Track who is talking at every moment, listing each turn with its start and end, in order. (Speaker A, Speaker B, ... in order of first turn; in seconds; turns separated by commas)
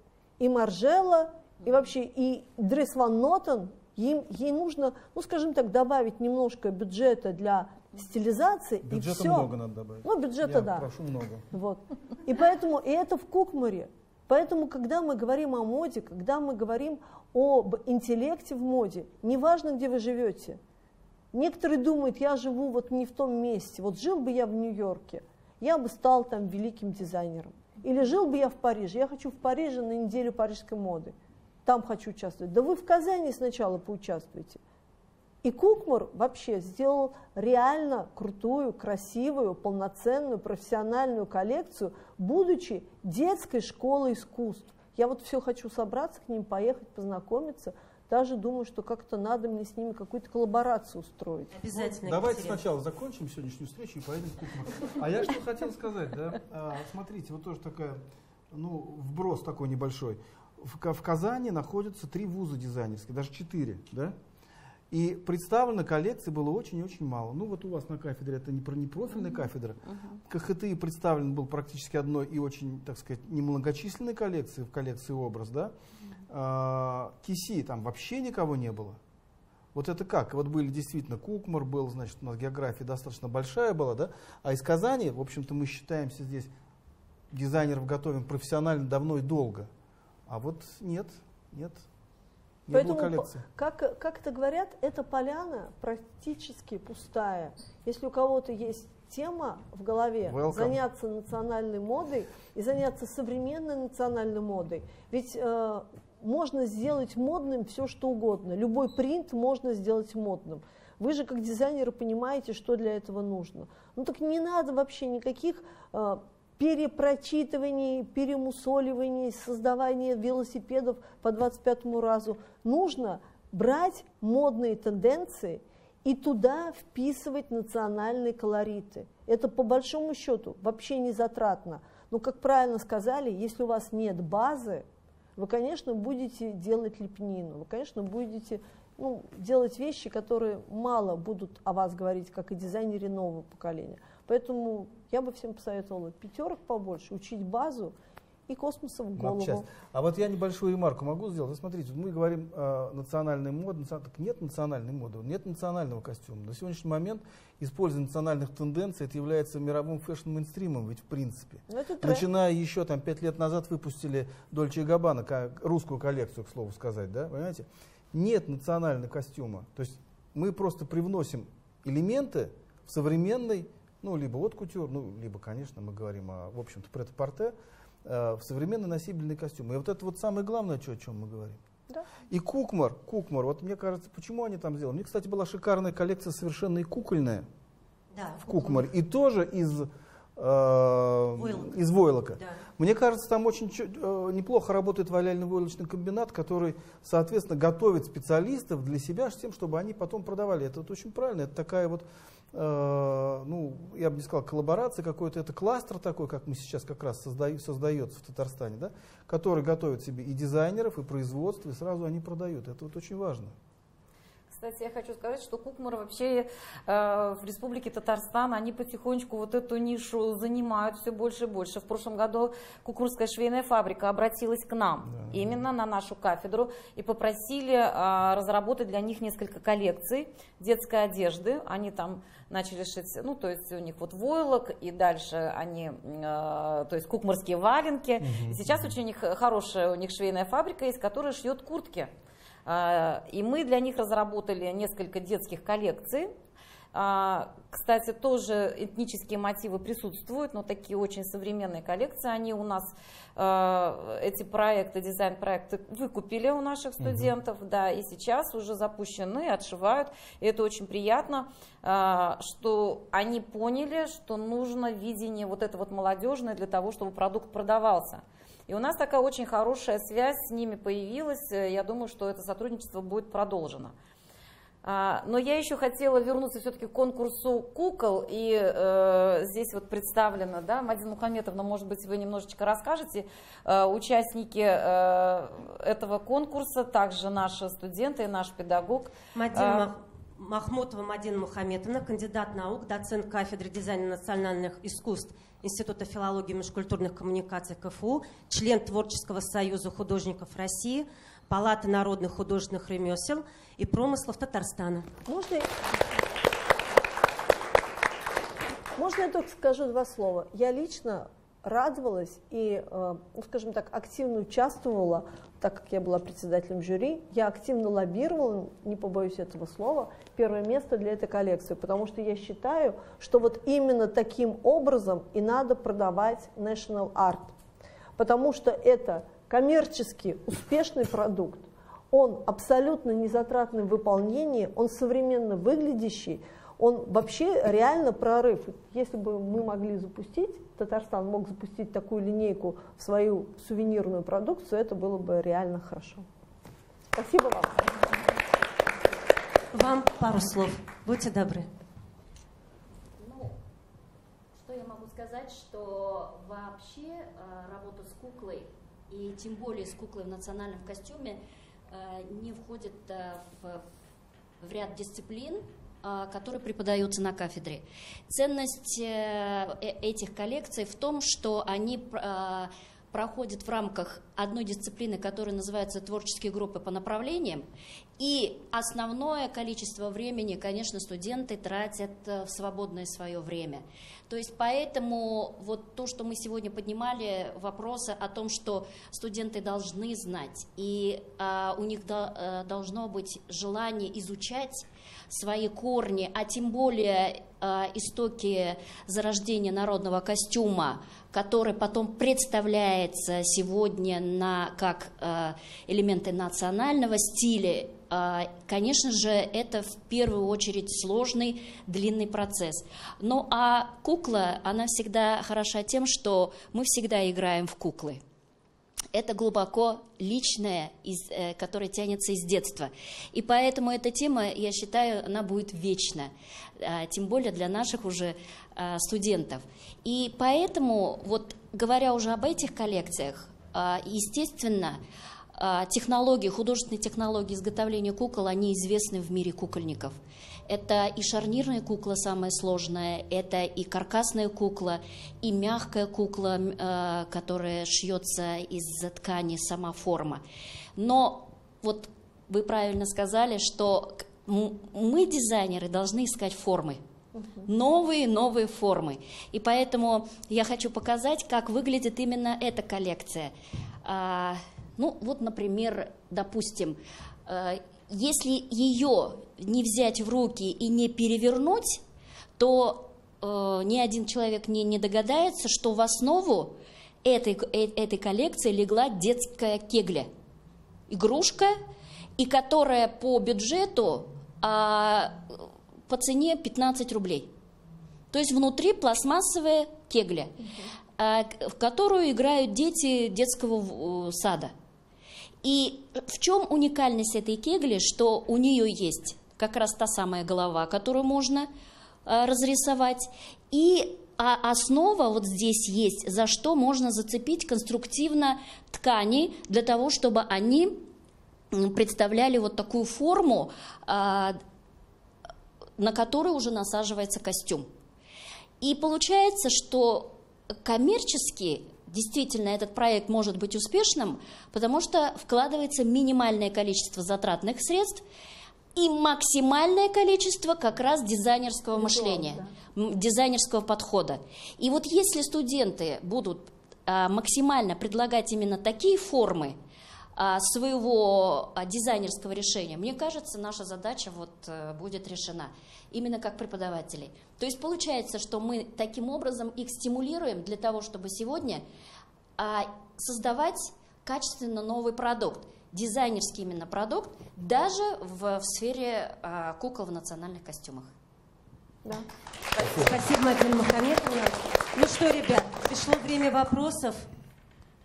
Speaker A: 0.4-9.5, Speaker B: 8.8-11.5, Speaker A: 10.0-10.9, Speaker A: 11.5-20.6, Speaker A: 21.3-34.6, Speaker A: 35.4-51.5, Speaker C: 51.5-52.6, Speaker B: 51.7-64.2, Speaker B: 64.9-75.7, Speaker B: 76.3-79.0, Speaker B: 79.7-86.5, Speaker B: 87.3-89.7, Speaker B: 90.3-91.9, Speaker B: 92.7-93.4, Speaker A: 92.7-147.9, Speaker B: 100.3-100.8, Speaker A: 148.5-149.7, Speaker B: 149.2-181.6, Speaker A: 161.7-162.3, Speaker B: 182.3-187.5, Speaker C: 188.1-188.9, Speaker B: 188.4-213.6, Speaker C: 191.3-191.8, Speaker C: 192.3-192.6, Speaker D: 214.5-242.1, Speaker B: 225.1-225.6, Speaker B: 238.2-238.9, Speaker D: 242.7-246.3, Speaker D: 246.9-273.9, Speaker B: 257.0-257.3, Speaker D: 274.8-289.9, Speaker C: 289.4-305.1, Speaker A: 305.3-305.7, Speaker A: 309.0-327.6, Speaker A: 328.2-346.3, Speaker A: 347.1-348.2, Speaker C: 349.7-351.7, Speaker E: 353.2-353.6, Speaker E: 354.5-363.9, Speaker E: 364.6-377.7, Speaker E: 378.2-418.2, Speaker E: 419.1-435.0, Speaker E: 435.6-450.4, Speaker E: 451.0-457.0, Speaker E: 457.6-472.0, Speaker E: 472.6-480.3, Speaker E: 481.1-481.8, Speaker E: 482.4-485.6, Speaker E: 486.1-487.5, Speaker E: 488.3-490.5, Speaker E: 491.2-494.7, Speaker E: 495.6-501.7, Speaker E: 502.3-511.0, Speaker E: 511.7-514.6, Speaker E: 516.0-517.9, Speaker E: 518.8-528.2, Speaker E: 529.0-539.8, Speaker A: 532.0-532.7, Speaker E: 540.4-551.8, Speaker E: 552.6-561.1, Speaker C: 562.8-567.3, Speaker B: 562.8-563.2